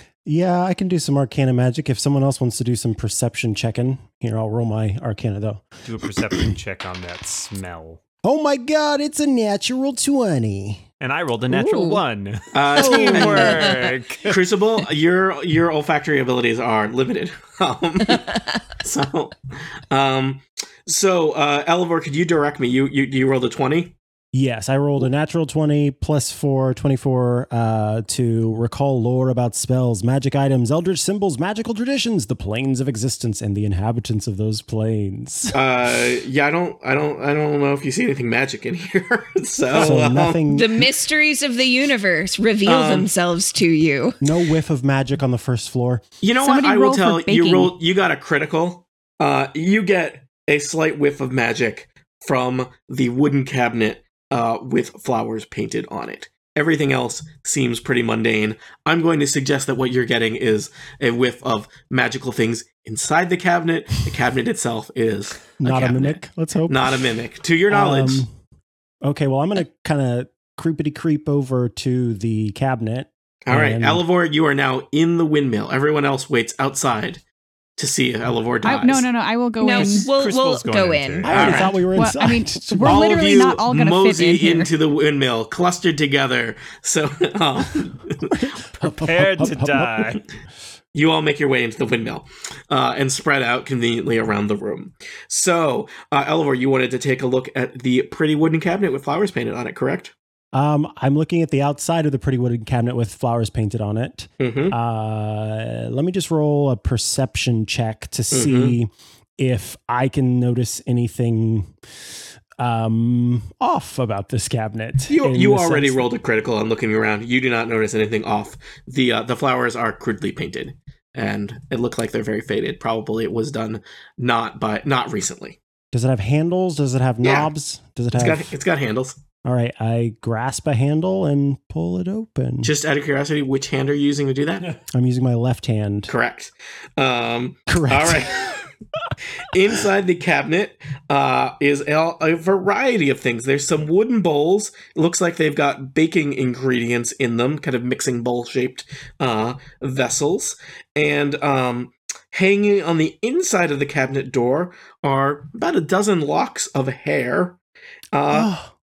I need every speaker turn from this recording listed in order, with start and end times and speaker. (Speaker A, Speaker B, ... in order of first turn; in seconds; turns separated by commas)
Speaker A: 0.2-5.7, Speaker B: 5.8-8.0, Speaker A: 8.2-10.8, Speaker B: 11.0-14.4, Speaker C: 11.5-12.0, Speaker D: 12.5-13.6, Speaker A: 12.8-13.4, Speaker C: 12.9-13.9, Speaker D: 14.2-18.3, Speaker D: 18.8-19.3, Speaker D: 19.9-23.9, Speaker A: 24.3-35.6, Speaker D: 35.5-40.4, Speaker A: 39.7-40.9, Speaker C: 40.5-44.2, Speaker D: 42.6-43.1, Speaker A: 44.2-46.0, Speaker D: 46.2-65.5, Speaker E: 46.4-47.7, Speaker A: 65.6-67.0, Speaker B: 65.6-66.2, Speaker D: 66.7-68.2, Speaker A: 67.7-68.3, Speaker A: 69.0-74.0, Speaker D: 73.5-77.2, Speaker D: 77.8-79.1, Speaker E: 78.6-80.1, Speaker C: 79.6-81.6, Speaker B: 79.7-81.7, Speaker A: 81.2-83.0, Speaker D: 81.3-81.7, Speaker E: 81.9-84.7, Speaker D: 82.8-88.3, Speaker A: 88.3-90.1, Speaker B: 88.8-90.2, Speaker D: 90.9-100.1, Speaker A: 100.5-111.7, Speaker D: 104.4-104.7, Speaker D: 108.3-108.8, Speaker A: 112.6-116.1, Speaker D: 115.1-125.6, Speaker A: 125.9-128.5, Speaker D: 127.2-127.5, Speaker D: 128.1-129.2, Speaker A: 129.4-132.7, Speaker D: 132.6-134.7, Speaker A: 134.9-136.1, Speaker D: 136.1-138.6, Speaker A: 137.7-138.5, Speaker D: 139.5-157.6, Speaker D: 158.1-158.5, Speaker A: 158.3-158.7